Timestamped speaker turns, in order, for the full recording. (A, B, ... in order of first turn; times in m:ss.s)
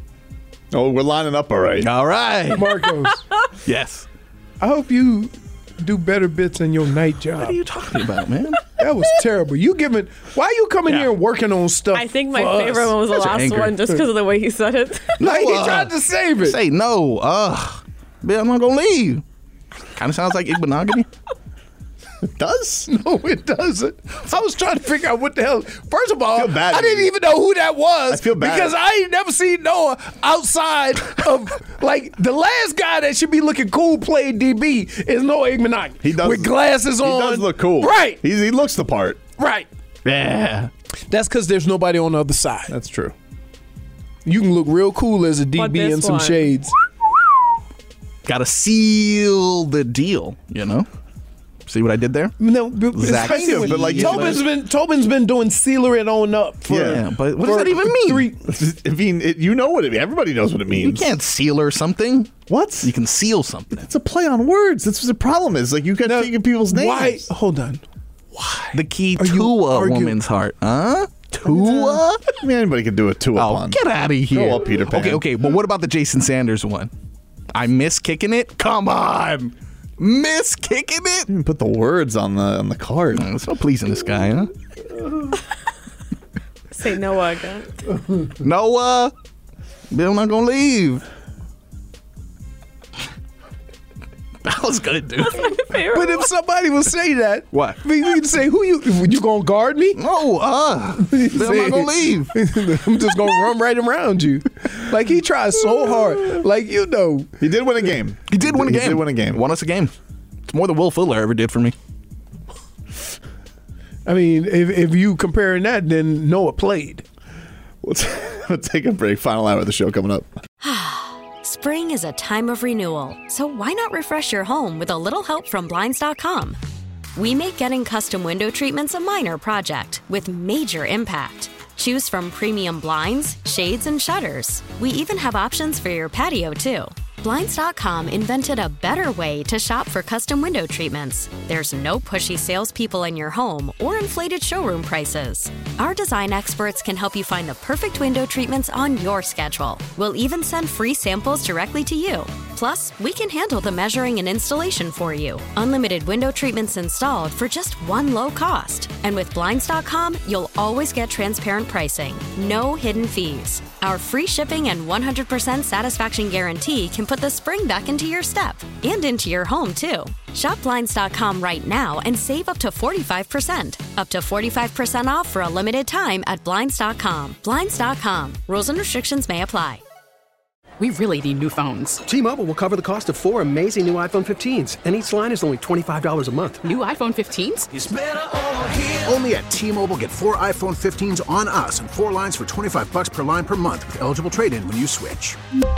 0:00.7-0:01.9 A
0:01.8-0:02.7 B
0:02.5-0:03.2 C
0:03.6-0:04.1 B
0:04.6-0:07.6 C
0:07.4-0:08.6 B
0:08.8-0:13.1 C
0:11.9-0:15.2 D
0:13.1-0:13.8 B
0:15.2-0:19.2 B
0:15.2-0:16.6 C
0:20.0-0:21.1 B
0:22.2-0:22.9 A
0:22.9-0:38.2 C
0:26.3-0:27.1 A
0:28.1-0:28.7 A
0:36.0-0:39.2 A
0:39.4-0:39.7 C
0:40.0-0:40.7 B
0:41.1-0:42.7 C
0:42.7-0:43.2 A
0:44.2-0:46.7 C
0:45.6-0:46.5 D
0:48.2-0:50.9 B
0:51.7-0:52.4 B
0:52.4-0:58.5 C
0:52.9-0:54.4 B
0:53.1-0:54.4 A
0:56.7-0:57.0 A
0:56.8-0:58.3 B
0:58.5-1:01.1 A
1:00.8-1:03.9 B
1:02.5-1:02.9 A
1:03.8-1:07.3 A
1:06.0-1:07.8 C
1:08.4-1:10.2 C
1:08.7-1:12.2 B
1:11.5-1:12.0 C
1:12.4-1:13.8 A
1:13.4-1:16.9 B
1:14.3-1:15.3 A
1:17.5-1:21.3 B
1:21.3-1:23.3 A
1:23.1-1:24.5 B
1:26.7-1:27.8 D
1:28.4-1:29.1 B
1:29.9-1:31.0 B
1:34.4-1:35.6 B
1:35.2-1:36.2 D
1:35.9-1:40.0 C
1:37.5-1:37.8 B
1:40.0-1:42.3 B
1:41.0-1:47.3 C
1:47.4-1:49.4 A
1:48.3-1:49.9 B
1:50.5-1:51.8 B
1:54.1-1:57.0 C
1:57.8-2:00.3 A
2:00.6-2:06.6 E
2:07.2-2:59.8 E
3:00.8-3:02.0 F
3:02.1-3:06.7 G
3:06.6-3:07.7 F
3:08.6-3:15.4 H